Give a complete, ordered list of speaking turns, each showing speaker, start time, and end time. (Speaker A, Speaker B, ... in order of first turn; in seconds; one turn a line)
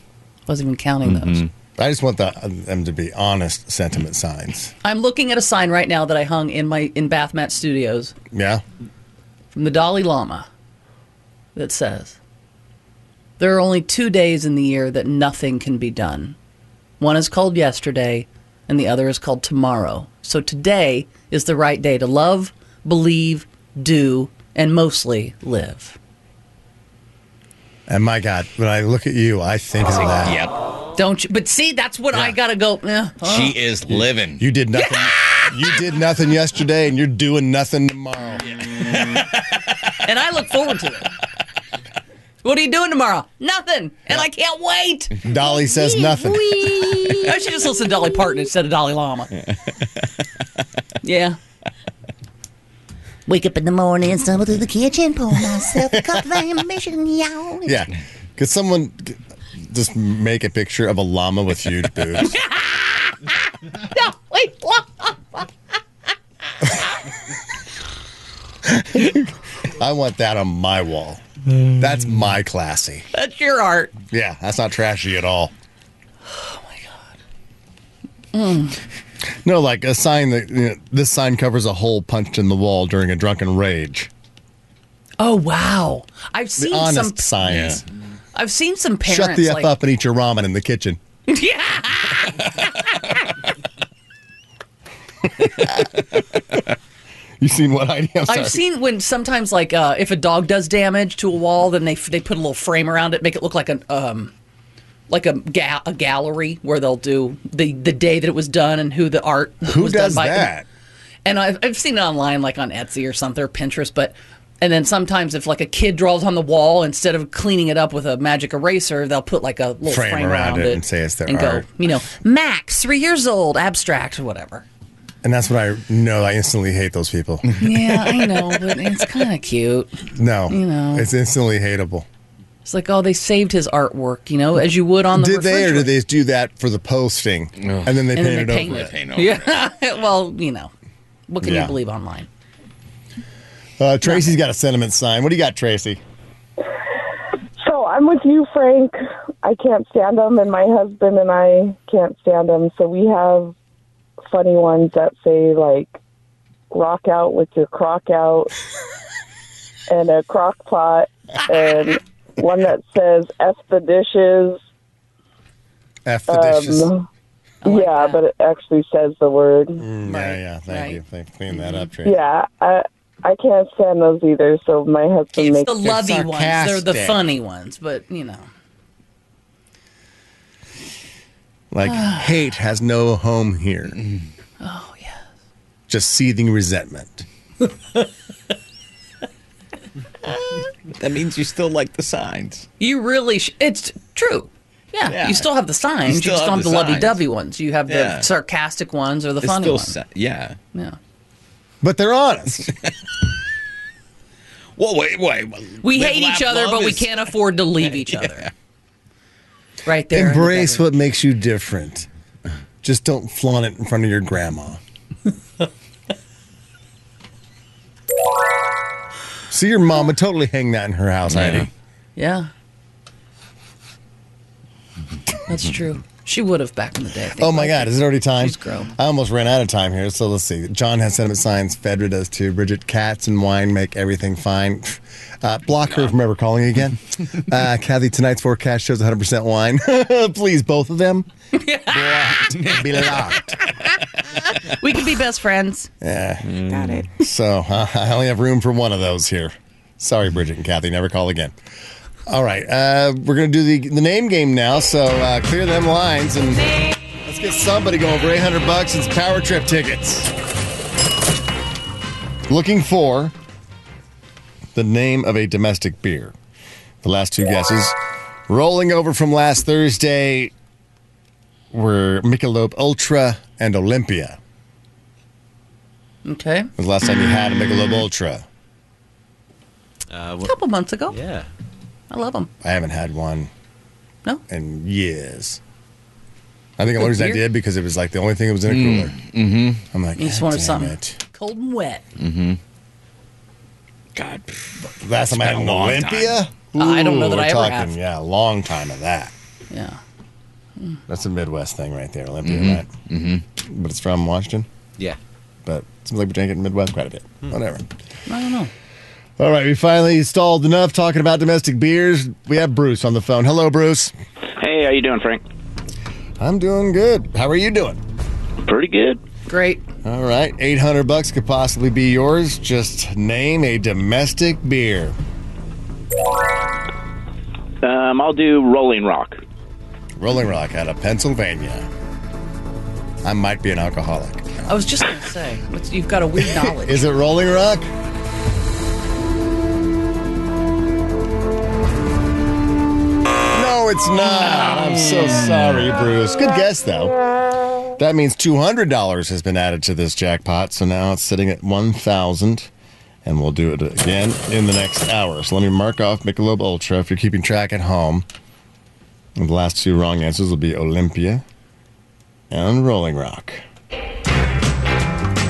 Speaker A: 0.5-1.5
Speaker B: 1.1-1.5
Speaker C: 1.8-4.7
Speaker A: 4.8-8.1
Speaker C: 8.3-8.6
Speaker A: 9.5-10.4
Speaker A: 11.5-12.2
Speaker A: 13.4-16.3
Speaker A: 17.0-26.0
Speaker C: 27.9-30.4
Speaker B: 30.2-30.6
Speaker A: 30.9-33.6
Speaker B: 33.2-34.4
Speaker C: 33.9-38.5
Speaker A: 34.9-35.4
Speaker A: 39.9-41.1
Speaker A: 42.4-45.2
Speaker C: 45.2-46.6
Speaker D: 45.8-47.2
Speaker A: 47.2-49.4
Speaker A: 51.0-51.4
Speaker D: 53.3-57.7
Speaker C: 57.6-62.4
Speaker A: 62.6-62.9
Speaker A: 63.8-65.5
Speaker C: 68.6-73.1
Speaker A: 73.1-73.9
Speaker C: 74.1-75.5
Speaker A: 76.3-77.1
Speaker A: 78.3-78.8
Speaker C: 79.4-84.1
Speaker A: 85.2-87.3
Speaker C: 86.6-87.8
Speaker B: 87.4-87.8
Speaker A: 88.3-89.7
Speaker C: 89.0-91.0
Speaker A: 91.3-93.3
Speaker C: 97.4-98.6
Speaker A: 98.3-104.3
Speaker A: 105.1-110.5
Speaker C: 109.6-110.7
Speaker A: 111.2-124.6
Speaker C: 119.8-121.7
Speaker C: 125.2-128.3
Speaker A: 127.6-131.1
Speaker C: 130.1-132.1
Speaker A: 132.6-135.9
Speaker C: 135.1-138.9
Speaker B: 137.6-138.0
Speaker A: 138.1-140.7
Speaker B: 138.6-139.6
Speaker A: 141.3-142.3
Speaker C: 141.4-141.8
Speaker C: 143.8-146.0
Speaker E: 147.6-153.5
Speaker E: 154.3-155.9
Speaker E: 156.7-158.6
Speaker E: 159.9-164.6
Speaker C: 166.1-166.9
Speaker E: 166.3-167.0
Speaker A: 167.6-168.2
Speaker E: 167.6-169.8
Speaker C: 169.8-172.2
Speaker A: 170.0-171.0
Speaker E: 172.0-175.7
Speaker A: 175.3-178.4
Speaker C: 175.8-177.2
Speaker C: 181.7-184.0
Speaker A: 181.8-182.2
Speaker A: 184.6-185.2
Speaker C: 185.9-187.2
Speaker B: 190.9-192.7
Speaker A: 192.8-200.0
Speaker B: 195.1-195.4
Speaker B: 196.0-197.2
Speaker B: 197.9-198.3
Speaker B: 199.4-200.6
Speaker C: 201.8-202.7
Speaker B: 204.8-207.1
Speaker A: 205.8-208.5
Speaker B: 208.1-208.5
Speaker A: 209.8-210.9
Speaker C: 210.1-212.1
Speaker C: 212.8-214.8
Speaker C: 219.5-221.7
Speaker B: 221.3-221.7
Speaker A: 222.2-222.5
Speaker A: 225.5-228.9
Speaker C: 227.4-241.3
Speaker A: 241.6-245.9
Speaker C: 241.8-243.6
Speaker C: 246.0-246.5
Speaker B: 246.4-246.9
Speaker A: 246.7-247.0
Speaker C: 247.2-251.5
Speaker C: 252.2-256.6
Speaker C: 257.2-260.3
Speaker C: 262.5-263.3
Speaker C: 264.7-266.3
Speaker C: 267.0-267.9
Speaker C: 268.5-270.5
Speaker C: 271.7-274.4
Speaker A: 276.2-276.7
Speaker C: 276.8-278.4
Speaker A: 280.4-281.2
Speaker A: 282.1-282.5
Speaker C: 282.6-283.5
Speaker C: 284.5-285.6
Speaker C: 286.8-289.1
Speaker A: 287.0-287.4
Speaker B: 288.7-289.8
Speaker C: 289.9-291.2
Speaker A: 290.2-292.0
Speaker B: 292.2-292.6
Speaker B: 294.1-296.4
Speaker C: 294.9-299.3
Speaker A: 296.8-298.0
Speaker A: 299.7-300.0
Speaker C: 301.1-302.9
Speaker B: 302.4-303.4
Speaker C: 303.6-304.7
Speaker C: 305.6-307.8
Speaker A: 308.3-308.7
Speaker C: 309.4-314.1
Speaker F: 314.6-315.4
Speaker C: 316.4-318.0
Speaker F: 318.6-319.2
Speaker A: 319.5-319.8
Speaker C: 320.0-325.1
Speaker F: 327.8-329.4
Speaker C: 330.2-331.9
Speaker C: 333.2-334.5
Speaker A: 334.7-337.1
Speaker C: 336.5-337.9
Speaker C: 343.5-347.2
Speaker C: 348.0-352.7
Speaker C: 353.2-358.2
Speaker C: 359.4-361.4
Speaker C: 362.5-363.6